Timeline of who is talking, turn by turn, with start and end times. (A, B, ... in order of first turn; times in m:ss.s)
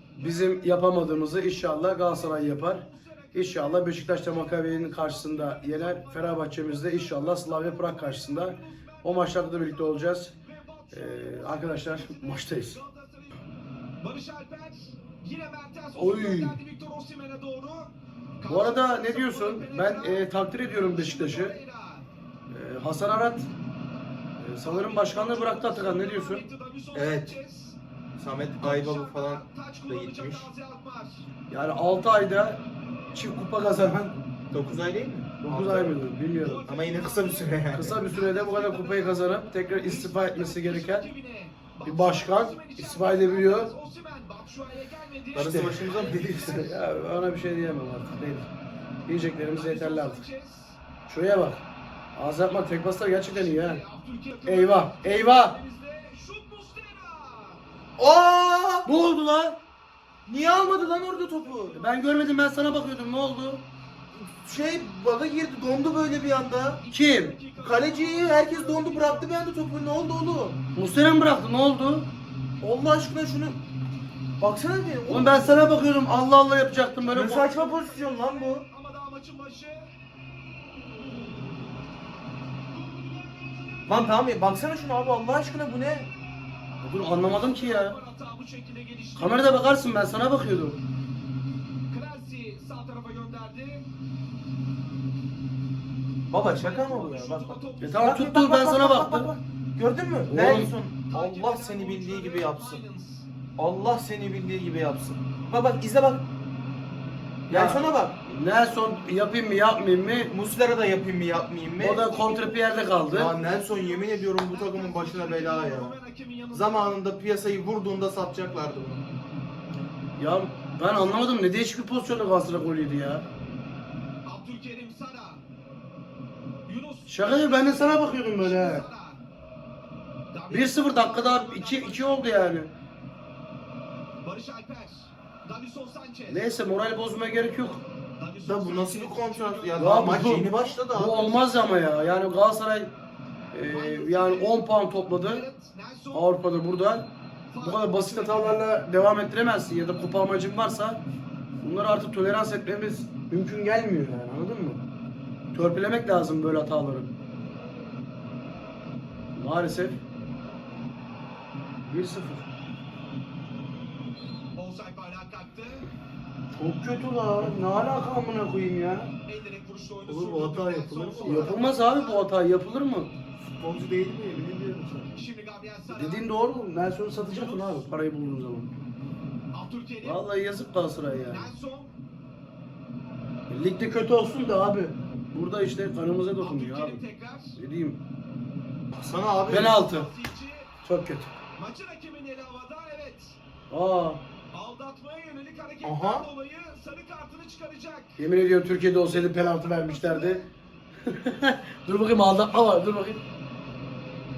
0:00.2-0:00.7 A
0:00.2-0:10.3 B
0:02.0-0:13.4 A
0:10.9-0:12.8 B
0:14.0-0:20.3 A
0:16.0-0:16.6 B
0:18.5-0:21.6 B
0:20.8-0:22.1 A
0:22.5-0:23.5 B
0:24.4-0:26.4 B
0:24.6-0:27.8 A
0:26.9-0:27.4 C
0:28.2-0:30.5 C
0:28.6-0:31.2 A
0:31.5-0:32.6 B
0:33.1-0:34.2 B
0:34.5-0:36.0 C
0:35.4-0:36.6 B
0:36.4-0:46.3 A
0:36.7-0:38.0 C
0:37.7-0:41.1 B
0:41.8-0:43.7 B
0:45.3-0:46.7 C
0:45.4-0:48.5 B
0:49.1-0:50.2 B
0:49.5-0:50.8 A
0:51.1-0:51.6 B
0:52.2-0:53.8 B
0:53.3-0:57.6 A
0:54.5-0:55.6 B
0:58.0-0:58.9 C
0:58.9-0:59.6 B
1:00.3-1:01.8 C
1:00.6-1:02.0 A
1:01.8-1:03.6 B
1:04.2-1:06.8 C
1:06.8-1:09.3 A
1:06.9-1:07.3 B
1:07.6-1:10.6 C
1:10.8-1:12.1 B
1:12.6-1:13.6 C
1:14.4-1:15.6 C
1:15.1-1:17.5 B
1:17.1-1:18.7 C
1:17.1-1:19.9 A
1:23.9-1:26.1 C
1:26.8-1:28.0 B
1:26.9-1:29.6 A
1:29.2-1:30.8 B
1:31.9-1:33.9 A
1:36.3-1:42.8 C
1:36.4-1:38.1 A
1:37.8-1:39.3 B
1:40.3-1:40.7 B
1:41.1-1:43.3 A
1:43.6-1:46.2 C
1:47.5-1:48.2 C
1:47.5-1:50.3 B
1:50.3-1:52.1 C
1:51.8-1:53.3 B
1:52.0-1:57.0 A
1:53.1-1:55.9 C
1:56.5-1:59.0 C
2:00.2-2:03.2 B
2:04.2-2:05.4 A
2:06.7-2:09.2 A
2:07.1-2:08.9 B
2:10.3-2:12.6 A
2:10.5-2:12.7 B
2:14.2-2:16.6 A
2:16.3-2:17.8 B
2:18.2-2:20.0 A
2:18.4-2:21.4 C
2:19.8-2:22.9 B
2:23.5-2:25.5 B
2:23.7-2:24.6 A
2:25.2-2:26.3 A
2:26.1-2:31.0 B
2:27.5-2:28.6 A
2:31.6-2:34.8 B
2:35.5-2:37.1 B
2:39.4-2:40.0 B
2:41.9-2:42.4 B
2:44.6-2:45.9 A
2:46.6-2:49.1 B
2:49.3-2:52.3 A
2:50.1-2:51.6 C
2:51.2-2:53.1 B
2:53.4-2:55.2 C
2:55.1-2:56.3 A
2:55.9-2:58.7 B
2:57.3-2:57.9 A
2:59.5-3:00.2 A
3:00.0-3:01.5 B
3:01.3-3:02.0 A
3:03.5-3:07.0 B
3:06.4-3:07.6 A
3:07.6-3:08.0 B
3:08.9-3:09.8 C
3:09.5-3:10.1 B
3:09.5-3:10.7 A
3:10.8-3:11.3 B
3:11.6-3:13.4 A
3:13.7-3:14.2 B
3:14.5-3:18.2 A
3:15.8-3:16.3 C
3:18.2-3:20.4 B
3:19.4-3:20.5 A
3:21.1-3:23.2 B